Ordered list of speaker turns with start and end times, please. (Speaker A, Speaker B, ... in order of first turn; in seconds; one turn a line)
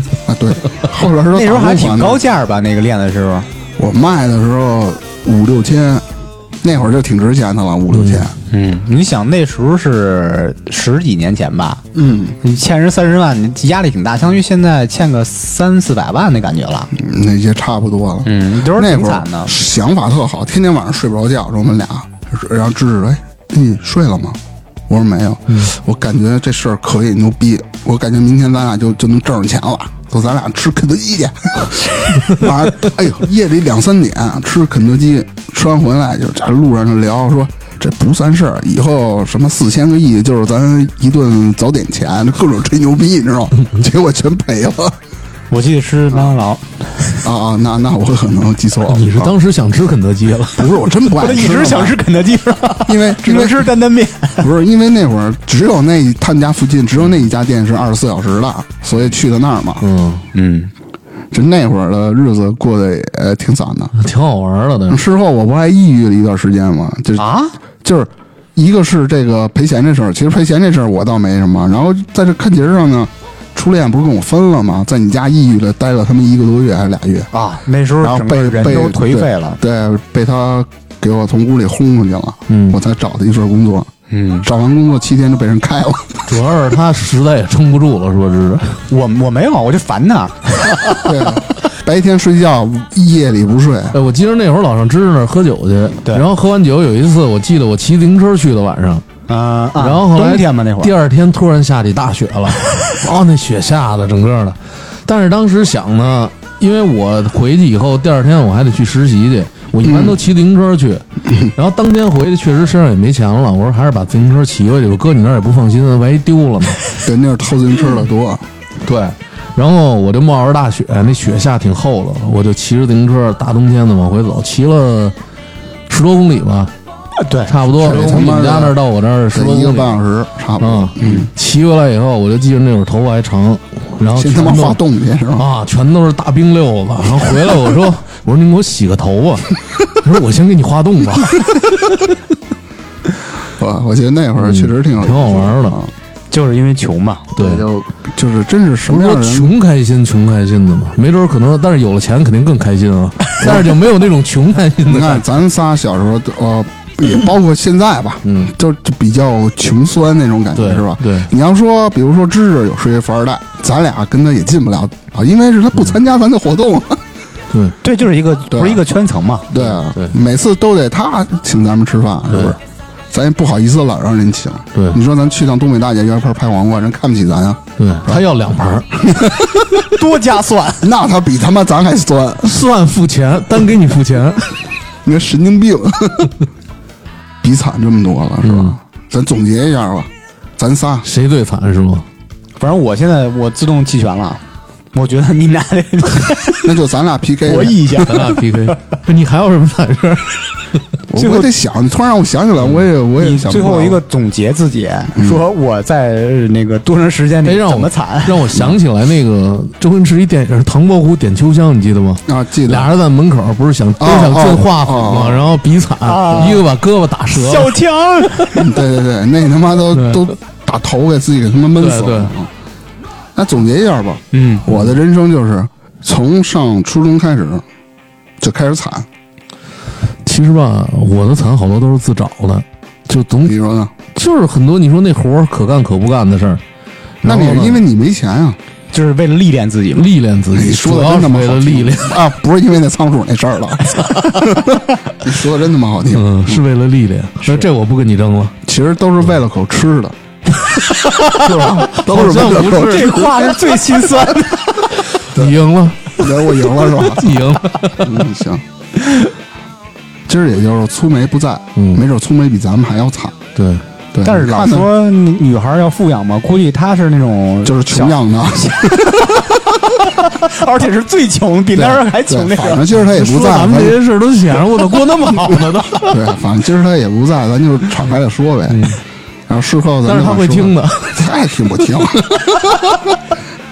Speaker A: 0.3-2.2
Speaker B: 1.3-3.5
Speaker A: 3.8-6.0
Speaker A: 6.6-8.4
Speaker C: 7.9-8.3
Speaker B: 8.5-11.8
Speaker A: 11.9-12.4
Speaker B: 12.4-16.9
Speaker A: 16.9-24.4
Speaker B: 18.3-19.5
Speaker A: 24.9-45.0
Speaker B: 45.5-47.2
Speaker A: 47.2-49.4
Speaker C: 48.9-50.8
Speaker A: 50.6-52.0
Speaker B: 51.1-54.5
Speaker A: 52.9-53.7
Speaker A: 54.4-59.9
Speaker C: 59.8-60.2
Speaker B: 60.3-60.7
Speaker A: 61.3-64.0
Speaker C: 64.0-65.0
Speaker A: 64.9-67.3
Speaker B: 67.2-67.5
Speaker A: 67.8-77.3
Speaker B: 77.3-79.6
Speaker A: 78.0-83.9
Speaker C: 82.5-82.8
Speaker B: 84.1-84.5
Speaker A: 84.4-86.3
Speaker C: 86.3-88.8
Speaker B: 88.9-91.2
Speaker A: 91.0-94.0
Speaker C: 93.9-99.0
Speaker B: 99.3-100.9
Speaker C: 99.8-116.8
Speaker A: 109.8-110.2
Speaker A: 117.0-118.4
Speaker C: 118.8-125.2
Speaker C: 125.9-126.7
Speaker B: 127.2-128.2
Speaker C: 127.5-130.0
Speaker A: 127.8-128.8
Speaker A: 129.3-131.3
Speaker C: 130.6-134.8
Speaker A: 134.2-135.5
Speaker C: 135.4-141.9
Speaker A: 143.6-145.9
Speaker C: 144.4-145.8
Speaker B: 146.3-147.3
Speaker C: 147.3-147.7
Speaker A: 147.4-149.5
Speaker C: 148.9-155.3
Speaker A: 153.4-153.9
Speaker A: 154.8-167.0
Speaker C: 158.2-158.5
Speaker C: 160.6-161.3
Speaker B: 167.8-169.5
Speaker A: 168.5-168.8
Speaker A: 169.5-172.6
Speaker C: 169.5-170.1
Speaker C: 172.3-172.6
Speaker A: 173.1-178.2
Speaker C: 177.8-179.2
Speaker A: 179.0-179.8
Speaker B: 179.9-180.9
Speaker A: 180.8-182.5
Speaker C: 182.4-184.6
Speaker A: 185.1-186.4
Speaker A: 187.4-191.1
Speaker C: 188.4-188.7
Speaker C: 191.0-192.1
Speaker B: 192.6-194.4
Speaker B: 194.9-196.7
Speaker A: 196.6-198.3
Speaker B: 197.4-198.8
Speaker C: 198.1-200.8
Speaker A: 201.1-204.0
Speaker B: 201.2-201.5
Speaker B: 203.2-208.5
Speaker C: 207.4-217.7
Speaker A: 212.3-212.9
Speaker A: 214.0-215.5
Speaker B: 216.1-216.7
Speaker B: 217.3-218.7
Speaker A: 218.5-222.5
Speaker C: 219.9-220.3
Speaker C: 221.8-222.3
Speaker A: 223.4-227.6
Speaker B: 224.3-224.7
Speaker C: 224.7-225.0
Speaker A: 228.4-229.1
Speaker C: 230.2-233.6
Speaker A: 233.5-233.9
Speaker C: 234.1-236.6
Speaker C: 237.2-237.8
Speaker A: 237.2-238.6
Speaker B: 238.9-240.1
Speaker C: 239.9-242.2
Speaker A: 240.5-246.6
Speaker C: 246.1-248.6
Speaker B: 247.4-247.7
Speaker A: 248.7-250.2
Speaker C: 251.0-253.4
Speaker A: 251.3-253.6
Speaker B: 252.6-254.8
Speaker C: 255.2-258.2
Speaker A: 256.2-258.6
Speaker A: 260.3-263.4
Speaker C: 261.8-262.0
Speaker C: 263.6-263.8
Speaker A: 264.1-264.9
Speaker B: 264.2-269.5
Speaker A: 267.6-269.7
Speaker B: 270.0-272.8
Speaker A: 272.1-274.0
Speaker C: 273.1-276.2
Speaker A: 276.0-278.9
Speaker C: 278.7-279.0
Speaker A: 279.5-283.2
Speaker C: 280.1-281.3